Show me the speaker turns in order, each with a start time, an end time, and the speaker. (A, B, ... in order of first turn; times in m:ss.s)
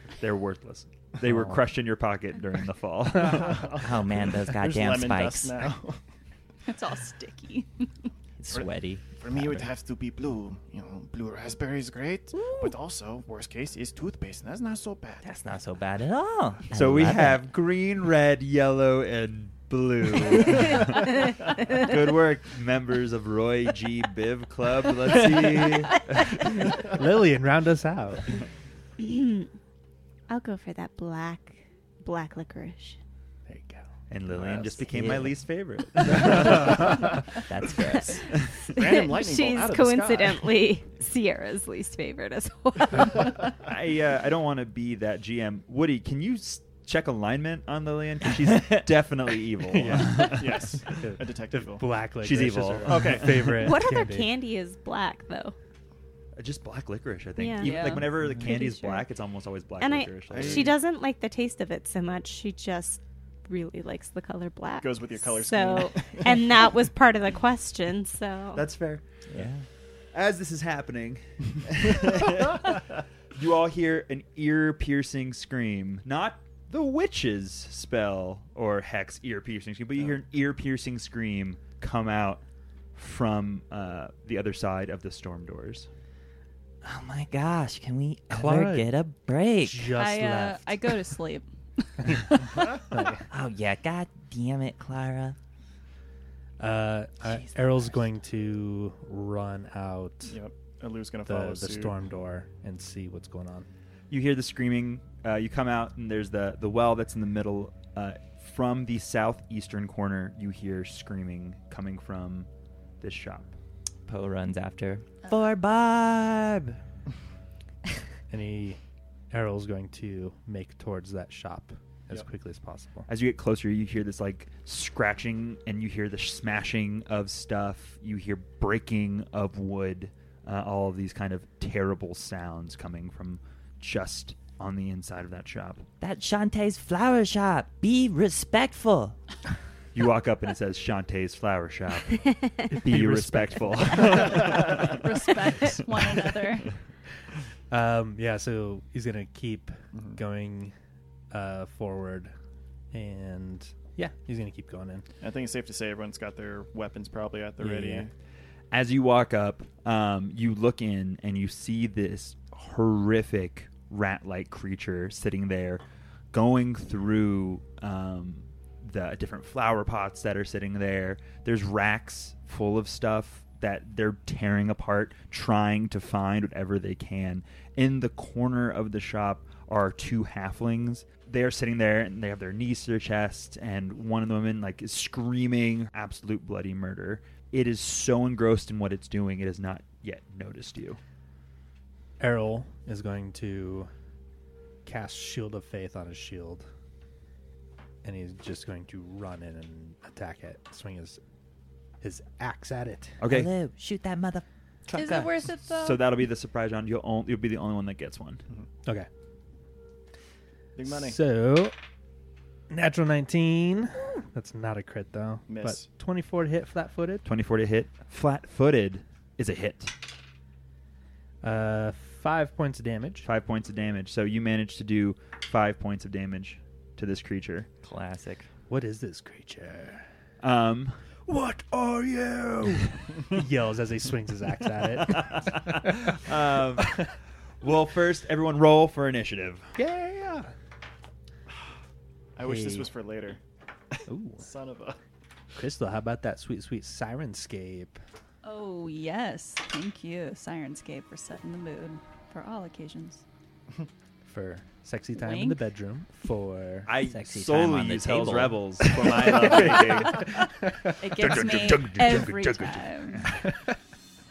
0:00.2-0:03.7 A
0:03.2-0:06.0 B
0:03.8-0:05.6 C
0:06.6-0:07.9 D
0:08.4-0:09.6 C
0:08.5-0:15.3 B
0:15.2-0:17.5 C
0:16.7-0:26.3 A
0:26.8-0:28.4 E
0:29.0-0:29.5 F
0:30.3-0:33.0 F
0:33.5-0:33.9 E
0:34.1-0:36.9 A
0:34.8-0:35.4 C
0:36.1-0:38.3 C
0:38.2-0:43.5 F
0:38.7-0:40.6 B
0:43.6-0:51.0 A
0:48.5-0:48.8 C
0:49.7-0:54.3 E
0:49.9-0:51.9 B
0:52.2-0:53.6 A
0:52.9-0:53.7 B
0:53.6-0:55.6 F
0:56.4-1:00.7 A
0:57.4-0:59.0 F
0:57.6-0:58.2 D
0:59.8-1:08.6 F
1:00.3-1:00.8 B
1:04.8-1:06.6 B
1:08.5-1:09.0 A
1:09.3-1:09.6 C
1:10.1-1:12.8 A
1:13.3-1:22.4 A
1:22.9-1:25.9 A
1:26.8-1:30.0 C
1:28.3-1:28.9 E
1:29.6-1:31.0 E
1:29.9-1:32.5 D
1:32.1-1:33.2 E
1:33.3-1:35.4 C
1:36.6-1:40.4 E
1:37.2-1:38.0 C
1:40.2-1:42.0 B
1:41.2-1:43.7 E
1:44.1-1:52.5 A
1:53.0-1:53.5 A
1:54.0-1:56.8 C
1:58.3-1:58.8 E
1:59.3-2:03.1 E
2:03.1-2:15.9 A
2:16.0-2:19.2 C
2:19.9-2:25.0 A
2:22.7-2:24.4 E
2:24.9-2:26.8 D
2:27.7-2:30.7 E
2:31.3-2:32.3 E
2:32.9-2:35.0 E
2:35.2-2:38.1 B
2:37.6-2:38.1 E
2:38.7-2:45.8 A
2:46.3-3:11.0 A
3:12.2-3:13.9 E
3:14.8-3:16.7 E
3:18.0-3:21.2 E
3:22.0-3:23.2 E
3:23.2-3:23.5 A
3:23.3-3:25.3 C
3:24.9-3:26.0 D
3:25.6-3:28.4 A
3:30.8-3:31.2 B
3:30.9-3:31.7 E
3:32.7-3:37.2 E
3:35.5-3:35.9 B
3:37.2-3:40.0 A
3:41.4-3:43.3 E
3:43.2-3:47.7 A
3:47.8-3:48.5 C
3:48.7-3:50.1 E
3:50.4-3:51.0 A
3:51.2-3:56.4 E
3:55.2-3:57.0 A
3:57.6-3:59.7 A
3:59.8-4:00.5 E
4:02.4-4:03.4 B
4:02.4-4:02.9 E
4:04.1-4:04.4 E
4:04.4-4:05.0 B
4:05.6-4:08.0 E
4:08.4-4:13.2 D
4:14.2-4:16.9 E
4:15.2-4:15.6 D
4:16.9-4:20.4 A
4:17.0-4:18.9 C
4:19.0-4:21.0 E
4:21.0-4:23.3 D
4:21.1-4:23.4 A
4:23.3-4:23.8 E